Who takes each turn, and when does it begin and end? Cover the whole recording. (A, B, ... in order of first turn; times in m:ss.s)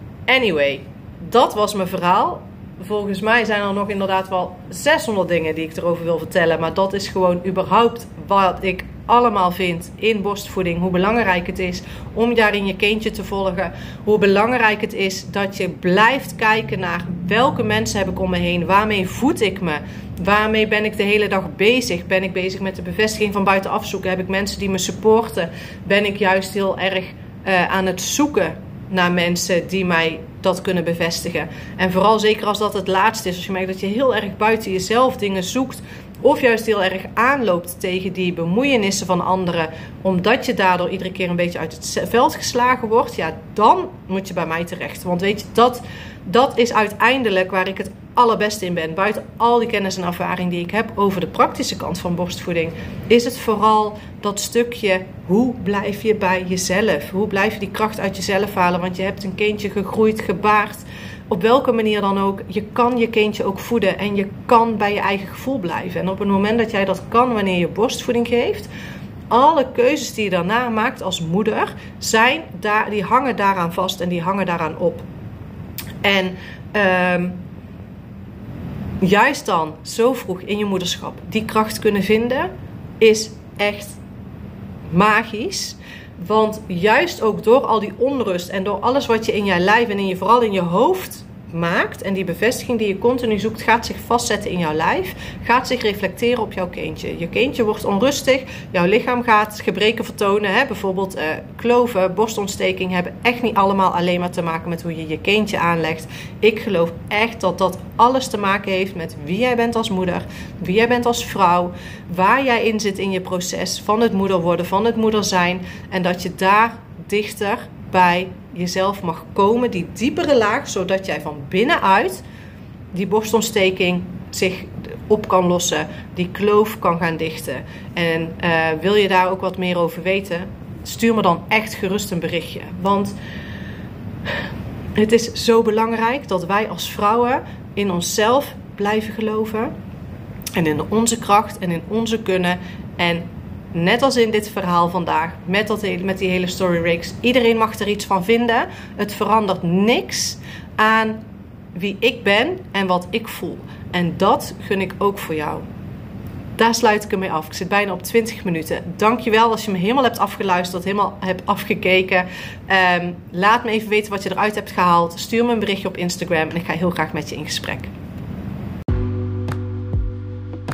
0:00.3-1:08.7 A
1:09.3-1:15.0 A
1:16.0-1:17.4 A
1:19.0-1:24.0 A
1:24.9-2:02.2 A
2:02.9-2:13.1 A
2:14.9-2:19.7 A
2:20.5-2:31.2 A
2:31.7-2:35.6 A
2:36.6-2:47.9 A